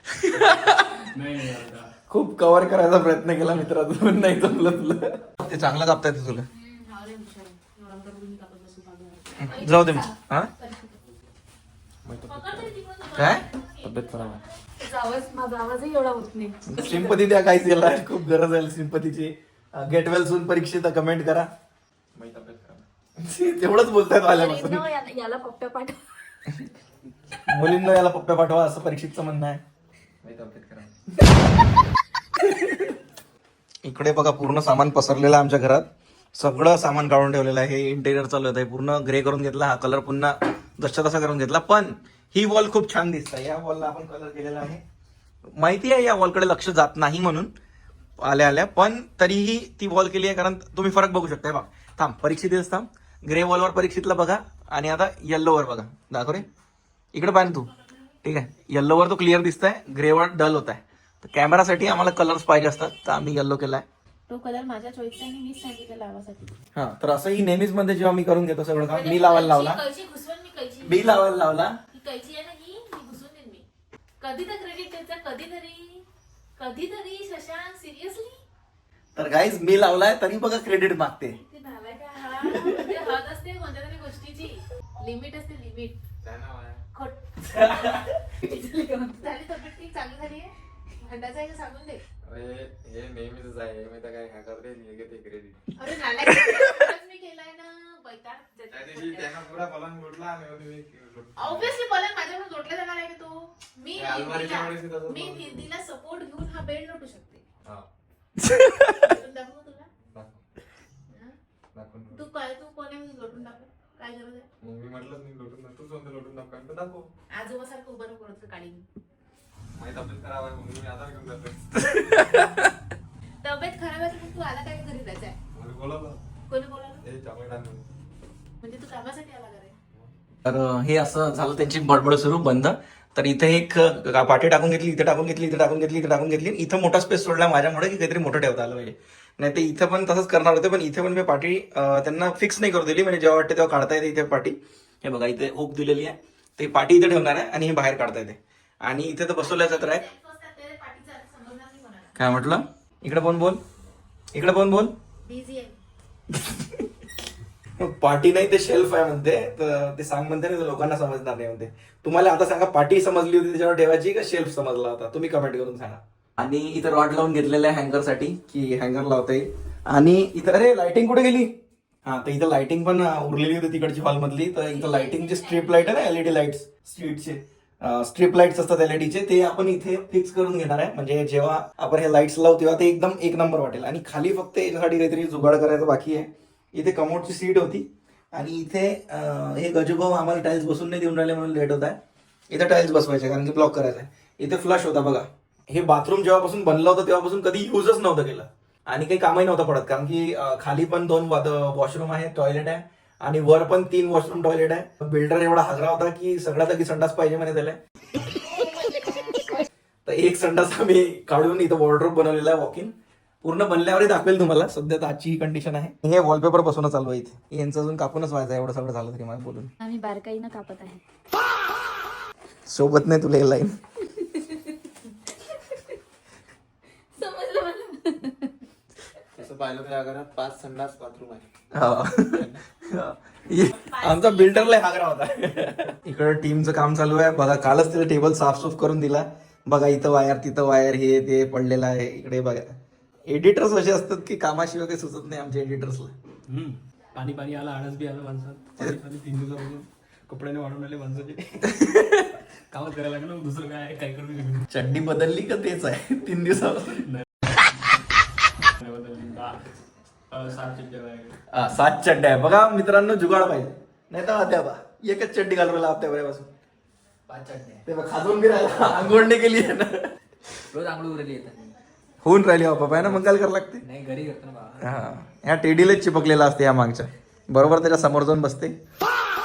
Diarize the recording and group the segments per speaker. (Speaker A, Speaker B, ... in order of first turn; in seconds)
Speaker A: 0.1-1.0, 2.1-6.5, 9.4-10.5, 13.1-13.4, 16.7-21.5, 23.2-24.9, 27.4-29.6, 32.5-32.9, 33.8-44.8, 45.6-47.5, 48.2-56.5, 57.1-57.7, 58.2-63.8, 66.7-69.8, 70.8-71.8, 79.2-81.4, 82.4-82.9, 87.4-88.2, 96.3-96.8, 108.4-109.1, 121.8-122.7, 130.4-150.0, 152.2-153.6, 154.3-154.9, 156.3-156.9, 157.8-171.5, 172.1-192.0, 192.5-207.8, 210.1-219.7, 222.7-223.8, 231.7-242.7, 243.3-246.1, 251.7-252.4, 254.7-257.1, 261.5-266.5, 267.9-270.5, 272.2-273.8, 274.8-278.8
Speaker B: 0.4-1.9, 15.0-16.5, 25.1-25.8, 246.5-251.7, 252.7-254.7, 258.8-259.7, 260.3-261.4, 267.3-267.8, 270.7-271.8, 272.8-273.3, 273.8-274.9
Speaker C: 6.5-9.8, 10.6-10.8, 12.3-14.7, 57.5-58.1, 64.3-66.6, 68.9-71.1, 71.9-73.7, 74.2-76.0, 76.6-78.4, 81.3-86.0, 86.9-87.9, 88.5-90.5, 91.0-92.0, 95.7-99.3, 101.4-107.4, 109.0-109.9, 111.1-111.3, 112.1-114.5, 117.3-118.9, 123.4-125.4, 126.5-127.0, 128.6-129.8, 149.4-152.2, 155.2-155.8, 174.6-176.1, 233.6-234.9
Speaker D: 9.7-10.0, 14.8-17.0, 24.3-26.0, 219.8-221.0, 227.2-228.3
Speaker E: 12.0-12.7, 13.8-14.4, 22.1-22.9, 30.2-30.9, 86.2-86.8, 92.2-95.6, 98.7-101.8, 103.9-105.7, 110.1-110.4, 111.7-112.3, 114.6-117.1, 119.7-121.8, 125.5-126.2, 127.0-127.9, 229.4-231.5, 232.3-232.6